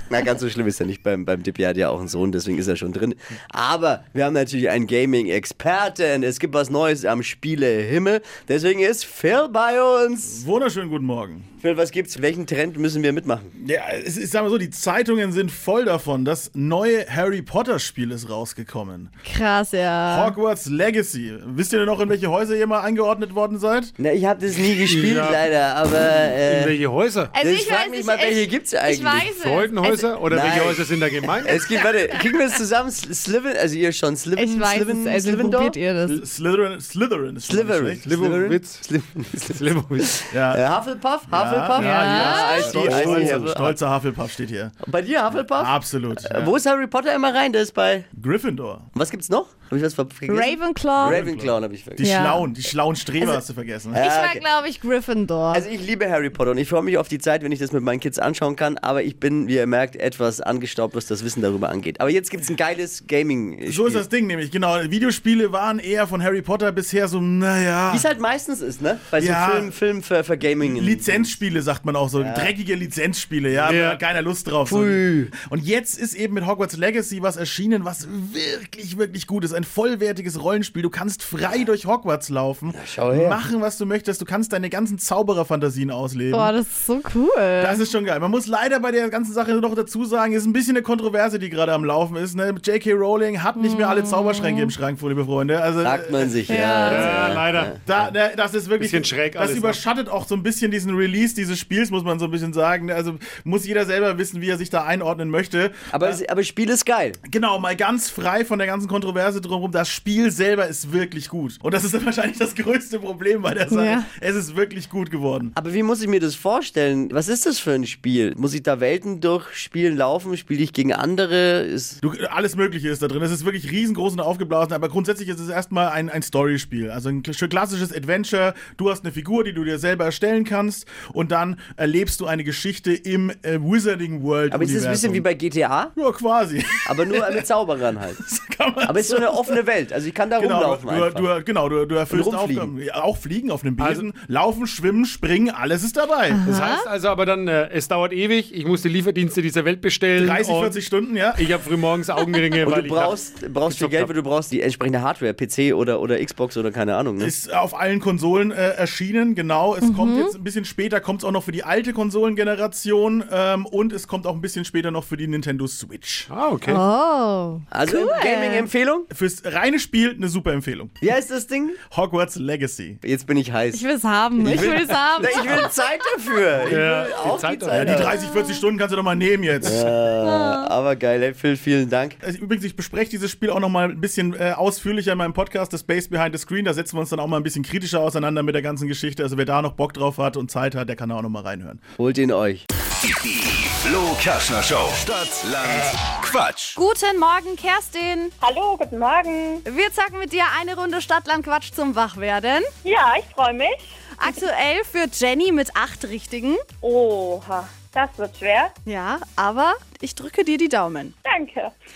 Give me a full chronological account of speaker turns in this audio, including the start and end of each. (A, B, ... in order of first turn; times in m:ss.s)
0:00.1-0:10.4 A
0:10.2-0:11.4 B
0:11.6-0:13.5 A
0:13.6-0:19.1 B
0:19.2-0:20.4 C
0:20.1-0:23.9 B
0:24.0-0:26.7 A
0:24.8-0:25.4 D
0:26.4-0:27.3 D
0:27.3-0:30.1 C
0:27.3-0:29.3 A
0:29.2-0:31.7 D
0:30.3-0:30.9 A
0:31.4-0:35.8 A
0:34.4-0:36.2 C
0:36.1-0:38.1 B
0:37.4-0:43.8 A
0:38.0-0:38.9 D
0:39.4-0:40.2 D
0:40.3-0:40.6 B
0:41.3-0:44.7 B
0:41.8-0:42.7 C
0:42.8-0:43.6 D
0:44.8-0:48.1 A
0:45.6-0:46.6 B
0:48.2-0:48.9 B
0:48.9-0:52.1 A
0:50.3-0:51.2 C
0:51.1-0:51.5 D
0:52.0-0:54.0 B
0:52.0-0:52.5 C
0:53.9-0:55.7 C
0:53.9-0:54.4 A
0:55.5-1:04.0 A
1:03.6-1:08.1 B
1:07.9-1:11.4 A
1:09.1-1:09.7 B
1:10.6-1:26.5 B
1:12.2-1:12.5 A
1:13.6-1:14.0 D
1:14.6-1:15.3 A
1:22.7-1:23.4 A
1:26.3-1:27.8 C
1:27.6-1:36.4 B
1:33.6-1:34.7 C
1:35.8-1:37.8 A
1:36.5-1:37.2 C
1:36.8-1:38.1 D
1:37.8-1:46.2 B
1:38.8-1:39.8 D
1:45.9-1:47.2 A
1:47.3-1:55.5 B
1:53.7-1:54.1 C
1:55.5-2:02.0 A
2:02.0-2:15.2 B
2:14.5-2:15.9 A
2:16.0-2:17.4 B
2:16.8-2:18.2 A
2:18.2-2:19.6 B
2:18.8-2:21.3 A
2:20.4-2:26.4 B
2:22.1-2:22.7 A
2:23.8-2:24.1 D
2:26.3-2:26.8 C
2:26.4-2:30.8 D
2:30.2-2:31.6 B
2:31.4-2:34.1 D
2:32.6-2:37.3 A
2:37.2-2:46.3 B
2:39.8-2:40.3 C
2:46.3-2:46.8 D
2:46.6-2:48.7 C
2:47.7-2:49.1 A
2:49.1-2:51.0 B
2:51.0-2:51.8 A
2:51.9-2:53.0 B
2:53.0-2:53.9 A
2:53.7-2:55.7 C
2:54.4-2:58.2 A
2:54.5-2:54.8 B
2:56.6-2:58.1 D
2:57.7-2:59.8 B
2:58.2-2:58.6 C
2:59.6-3:02.2 A
3:00.2-3:00.7 C
3:02.2-3:11.8 B
3:12.0-3:12.6 A
3:13.2-3:16.8 E
3:16.8-3:18.3 C
3:18.4-3:19.6 F
3:19.6-3:22.7 C
3:22.8-3:23.9 F
3:24.2-3:26.6 C
3:26.8-3:28.7 F
3:28.8-3:31.1 C
3:31.2-3:31.7 F